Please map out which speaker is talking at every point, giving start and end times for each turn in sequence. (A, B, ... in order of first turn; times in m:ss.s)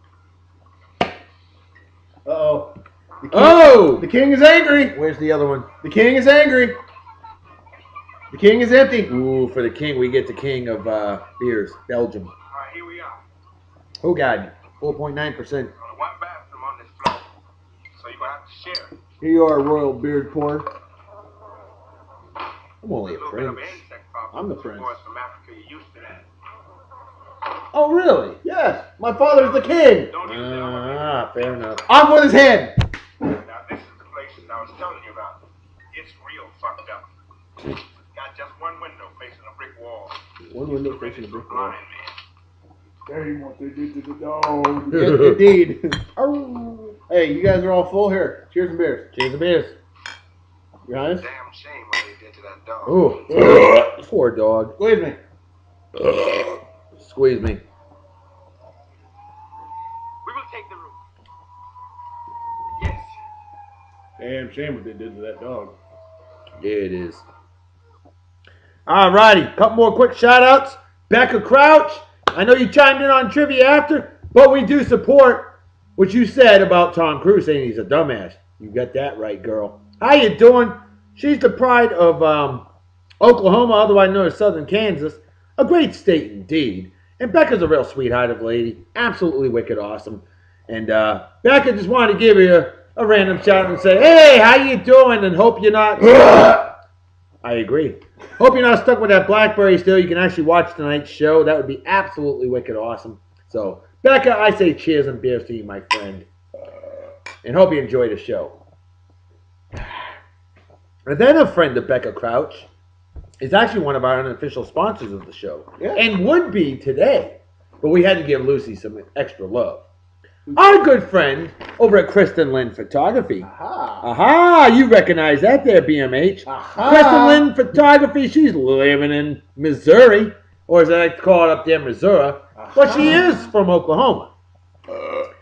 0:02.2-0:05.0 A
0:03.3-0:04.1 B
0:04.9-0:05.7 B
0:05.8-0:06.8 A
0:08.3-0:09.1 A
0:09.1-0:12.3 B
0:12.5-0:13.2 C
0:14.0-0:15.7 B
0:15.8-0:17.2 C
0:18.0-0:19.0 C
0:19.2-0:20.7 A
0:22.8-0:23.8 B
0:23.0-0:26.2 C
0:24.3-0:25.0 A
0:27.7-0:28.4 B
0:28.4-0:30.2 A
0:30.1-0:31.5 C
0:30.2-0:31.8 B
0:31.9-0:32.8 A
0:33.2-0:35.4 C
0:35.9-0:37.1 C
0:38.1-0:40.2 C
0:40.5-0:41.8 A
0:40.7-0:42.2 C
0:43.1-0:45.1 D
0:44.9-0:45.5 B
0:44.9-0:46.0 A
0:46.2-0:47.0 B
0:47.1-0:49.1 A
0:49.1-0:49.8 B
0:50.9-0:51.3 A
0:51.2-0:53.0 C
0:52.9-0:54.8 B
0:53.3-0:53.8 A
0:54.8-0:55.2 A
0:57.0-0:57.6 B
1:00.2-1:01.0 C
1:02.8-1:03.2 C
1:04.2-1:05.8 A
1:06.6-1:07.2 B
1:08.9-1:22.7 B
1:23.2-1:36.7 B
1:37.4-1:46.3 B
1:47.4-1:48.6 B
1:51.1-1:52.7 B
1:53.4-1:59.8 B
1:55.8-1:56.0 A
2:00.5-2:00.9 A
2:00.6-2:03.5 B
2:03.4-2:04.1 A
2:04.0-2:14.3 B
2:06.5-2:07.5 A
2:12.6-2:13.5 A